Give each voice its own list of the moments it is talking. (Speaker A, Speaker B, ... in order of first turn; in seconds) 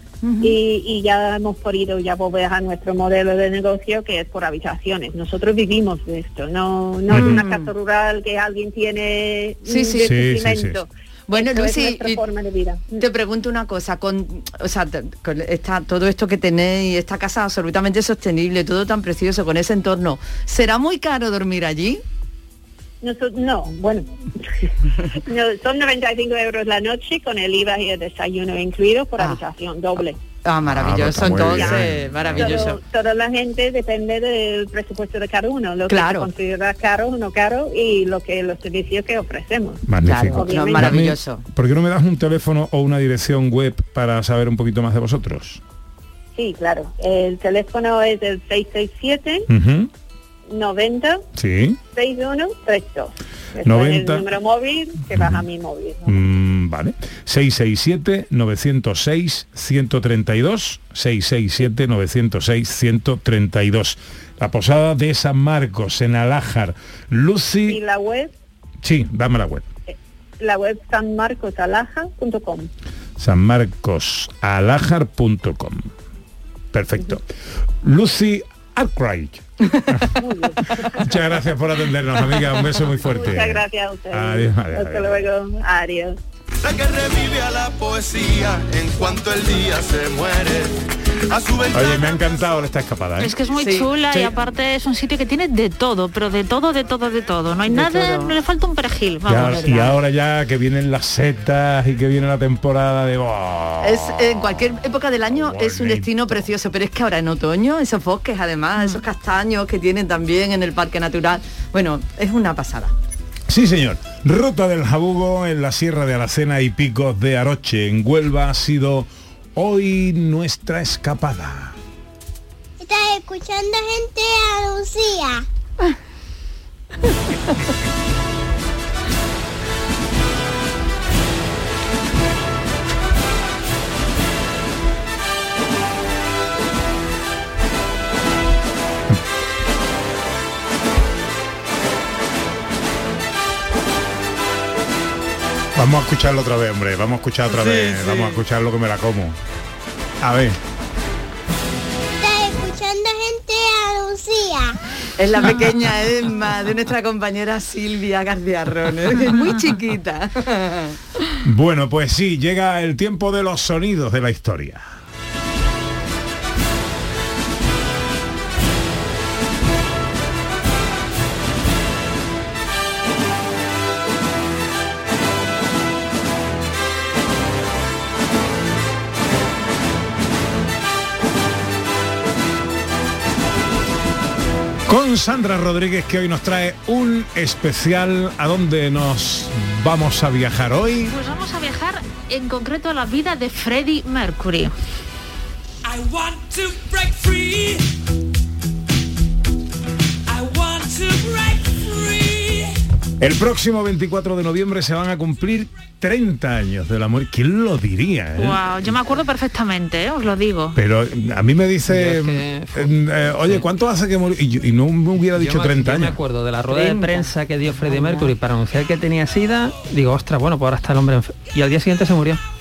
Speaker A: 0.2-0.6, 7.1-7.7, 9.7-10.1, 11.3-12.2, 12.9-22.0, 30.4-32.8, 35.9-36.3, 40.0-41.4, 93.6-93.9, 97.7-98.3, 103.8-112.9, 147.6-148.4, 155.2-161.0, 216.7-218.3
Speaker B: 0.4-13.0, 23.0-30.2, 31.5-31.8, 32.4-39.8, 40.4-41.0, 46.4-49.5, 50.5-51.2, 52.0-56.2, 67.7-68.3, 69.9-72.7, 80.2-80.9, 83.1-86.2
Speaker C: 7.1-7.4, 10.0-10.8, 30.6-32.6, 39.9-45.6, 49.5-49.9, 51.4-51.8, 53.6-54.3, 55.1-55.4, 56.1-67.8, 68.8-69.7, 73.2-75.9, 76.7-77.2, 77.8-80.2, 81.0-85.2, 91.7-93.3, 99.3-104.7, 105.3-106.4, 113.5-121.8, 145.8-149.4, 150.2-150.6, 161.4-164.9, 184.9-191.1, 203.2-208.7, 210.8-216.2
Speaker D: 86.6-92.6
Speaker E: 93.2-99.9, 191.1-194.7, 208.4-210.8
Speaker F: 122.8-125.5, 152.2-154.8
Speaker G: 195.8-197.9, 200.3-202.8
Speaker H: 211.9-213.7, 215.4-222.4